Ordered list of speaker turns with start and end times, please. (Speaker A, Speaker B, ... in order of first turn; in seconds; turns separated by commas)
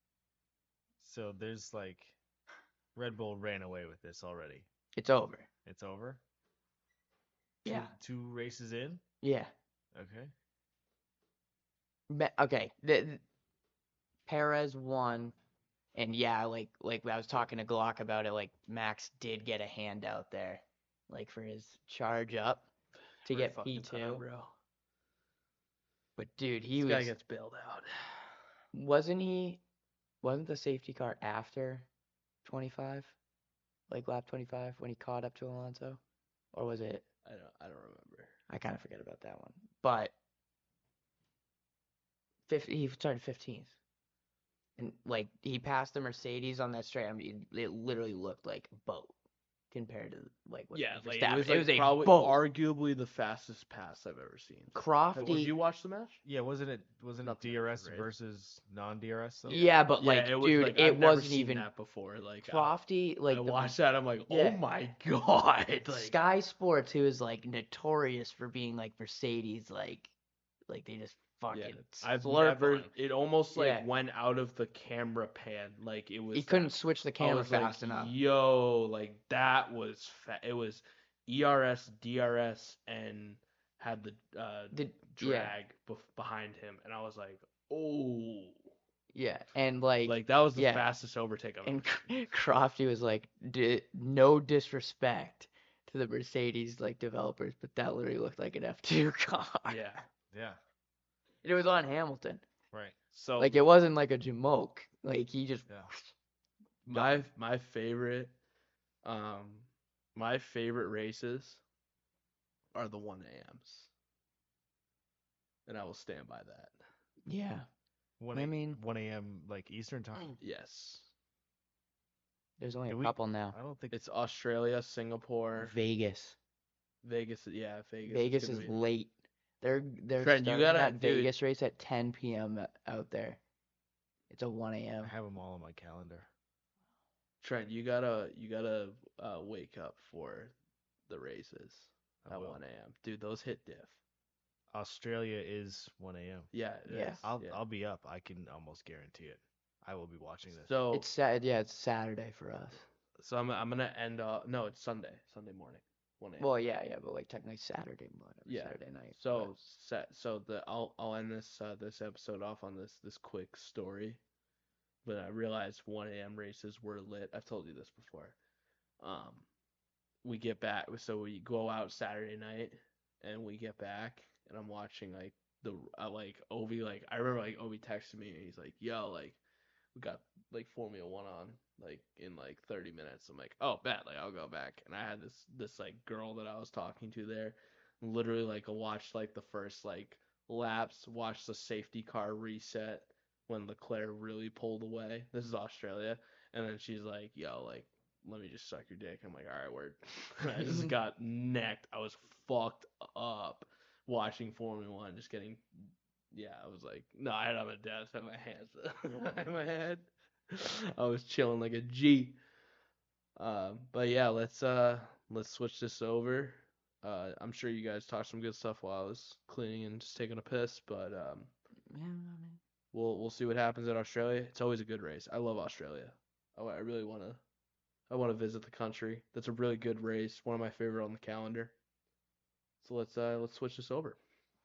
Speaker A: 1.0-2.2, Speaker A: 2.9-4.7, Speaker B: 4.9-5.5, Speaker A: 5.6-6.2, Speaker B: 7.6-7.9, Speaker A: 7.6-9.0, Speaker B: 9.2-9.5, Speaker A: 9.9-10.3, Speaker B: 12.1-13.2, Speaker B: 14.2-15.3, Speaker B: 15.9-22.6, Speaker B: 23.2-24.2, Speaker C: 23.2-24.5, Speaker B: 26.2-27.1, Speaker C: 26.8-28.3, Speaker B: 28.7-29.6, Speaker B: 30.2-31.9, Speaker B: 32.4-33.1, Speaker B: 33.9-36.0, Speaker B: 36.5-37.0, Speaker C: 37.2-38.3, Speaker B: 38.5-40.1, Speaker B: 42.5-43.7, Speaker B: 44.8-49.1, Speaker B: 49.7-52.4, Speaker C: 50.7-56.2, Speaker B: 54.7-55.5, Speaker A: 56.2-59.6, Speaker C: 57.2-58.1, Speaker B: 59.5-61.7, Speaker C: 59.5-66.2, Speaker B: 62.4-63.7, Speaker B: 64.3-64.6, Speaker B: 65.8-70.1, Speaker B: 70.7-72.9, Speaker C: 71.5-88.7, Speaker B: 73.5-73.8, Speaker B: 76.3-78.1, Speaker B: 84.7-85.5, Speaker B: 89.1-90.8, Speaker C: 90.0-92.3, Speaker B: 91.6-99.9, Speaker C: 99.7-100.0, Speaker A: 100.3-100.6, Speaker B: 101.4-102.4, Speaker C: 103.1-103.6, Speaker B: 103.4-106.1, Speaker C: 106.9-108.3, Speaker B: 106.9-107.2, Speaker C: 109.0-111.6, Speaker C: 112.7-113.9, Speaker C: 115.7-116.7, Speaker B: 117.2-117.7, Speaker A: 118.2-120.3, Speaker B: 118.3-118.8, Speaker C: 120.4-121.1, Speaker B: 122.6-123.6, Speaker A: 122.9-123.9, Speaker C: 123.9-125.7, Speaker B: 125.6-126.4, Speaker C: 127.0-128.8, Speaker B: 128.1-133.4, Speaker C: 130.2-131.3, Speaker B: 134.3-135.1, Speaker A: 135.0-136.3, Speaker C: 137.4-140.5, Speaker C: 141.1-144.0, Speaker A: 142.2-142.6, Speaker A: 144.7-150.7, Speaker C: 146.5-147.6, Speaker B: 146.9-147.2, Speaker C: 150.6-151.1, Speaker B: 150.9-152.8, Speaker C: 153.2-156.5, Speaker B: 156.4-159.5, Speaker C: 158.5-164.2, Speaker C: 165.0-168.4, Speaker C: 169.0-169.5, Speaker C: 170.2-179.4, Speaker C: 179.9-205.6, Speaker C: 206.3-212.4, Speaker C: 213.3-221.5, Speaker B: 221.9-222.6, Speaker C: 222.9-227.4, Speaker C: 228.1-231.7, Speaker C: 232.8-234.2